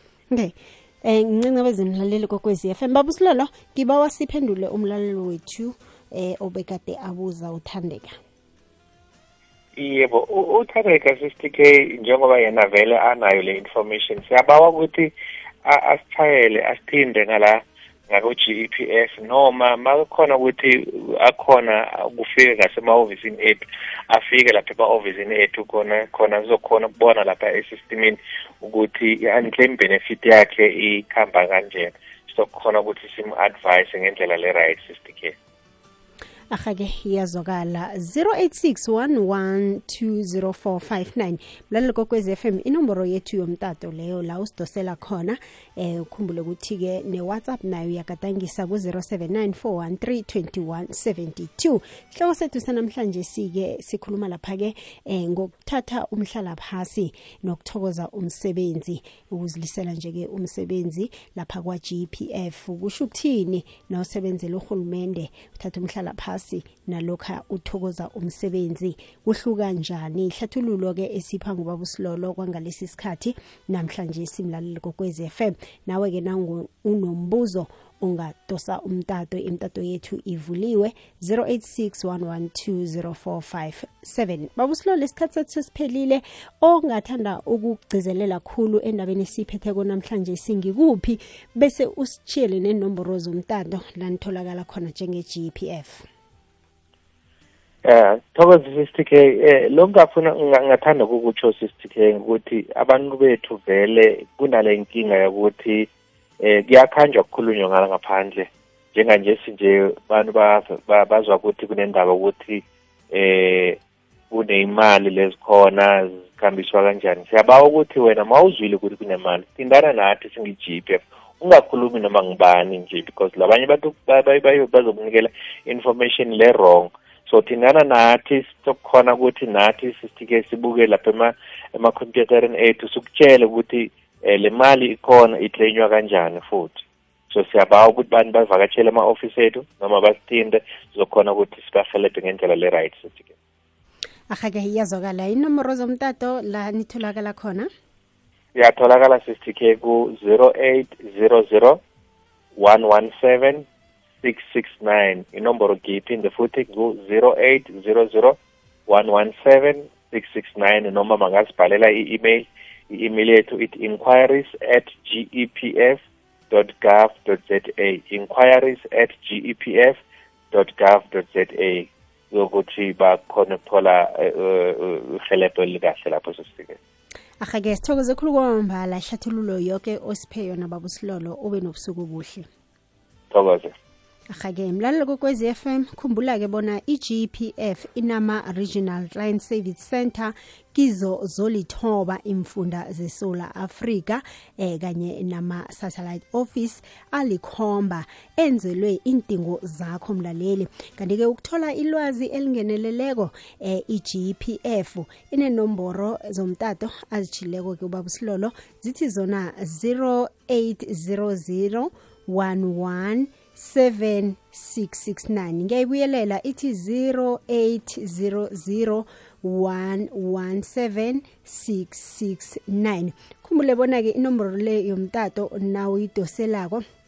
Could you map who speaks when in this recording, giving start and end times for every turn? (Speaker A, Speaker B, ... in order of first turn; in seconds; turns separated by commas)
Speaker A: 0.3-8.2, Speaker B: 9.8-15.1, Speaker B: 15.6-35.4, Speaker A: 36.5-96.1, Speaker B: 97.8-105.9, Speaker B: 106.4-113.8, Speaker B: 114.3-143.3, Speaker A: 144.3-147.7, Speaker B: 148.6-151.8, Speaker B: 152.6-153.7, Speaker B: 154.2-158.4, Speaker B: 158.9-170.0, Speaker B: 170.5-176.8, Speaker A: 177.4-182.5, Speaker B: 183.3-183.8, Speaker A: 184.3-226.8